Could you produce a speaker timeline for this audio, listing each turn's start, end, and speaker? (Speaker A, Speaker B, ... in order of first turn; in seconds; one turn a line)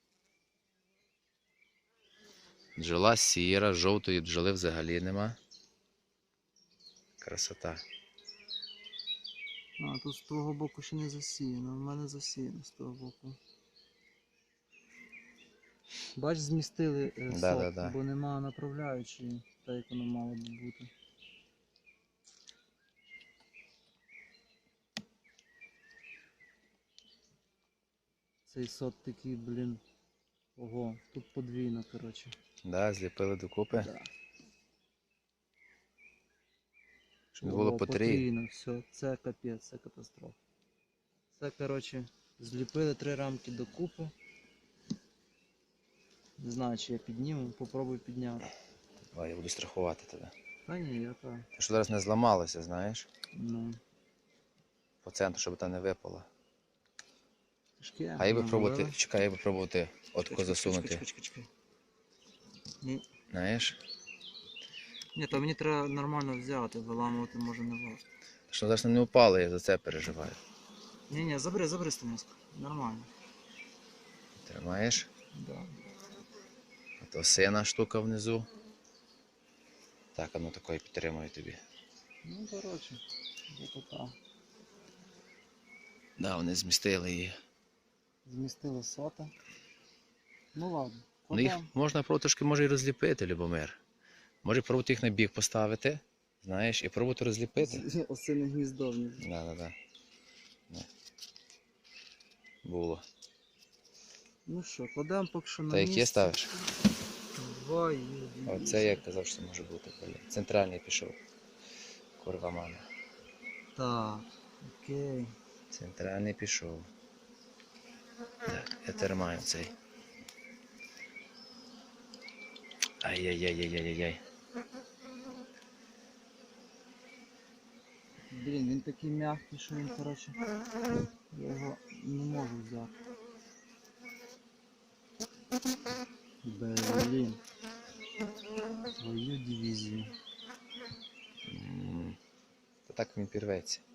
Speaker A: 2.8-5.4
Speaker A: 7.2-7.8
Speaker B: 9.8-13.4
Speaker B: 16.1-20.9
Speaker A: 17.3-17.9
Speaker B: 28.5-29.8
Speaker B: 30.6-32.3
Speaker A: 32.6-33.9
Speaker B: 33.7-34.1
Speaker B: 37.3-40.4
Speaker A: 37.4-38.2
Speaker B: 41.3-44.1
Speaker B: 46.4-48.5
Speaker A: 49.1-50.3
Speaker B: 50.6-51.5
Speaker A: 51.5-53.1
Speaker B: 53.3-53.8
Speaker A: 55.0-56.3
Speaker B: 57.8-59.0
Speaker A: 58.2-61.0
Speaker B: 60.3-61.5
Speaker A: 63.3-63.8
Speaker B: 65.1-68.1
Speaker A: 68.5-70.4
Speaker B: 71.1-73.1
Speaker A: 74.4-75.1
Speaker B: 75.3-75.7
Speaker A: 77.0-78.5
Speaker A: 80.1-81.6
Speaker B: 82.2-84.1
Speaker A: 86.2-87.3
Speaker B: 88.2-89.3
Speaker B: 90.5-91.7
Speaker A: 91.3-93.8
Speaker A: 94.4-97.8
Speaker B: 97.6-99.2
Speaker A: 99.2-99.7
Speaker A: 102.6-103.0
Speaker B: 104.5-106.6
Speaker A: 105.7-106.5
Speaker B: 107.3-109.0
Speaker A: 108.5-111.2
Speaker A: 112.2-112.8
Speaker B: 113.7-115.3
Speaker A: 115.7-116.9
Speaker A: 118.5-119.7
Speaker A: 123.0-124.2
Speaker B: 128.3-130.4
Speaker B: 131.3-132.9
Speaker B: 136.4-137.4
Speaker B: 138.9-140.1
Speaker A: 141.5-142.2
Speaker A: 142.9-143.8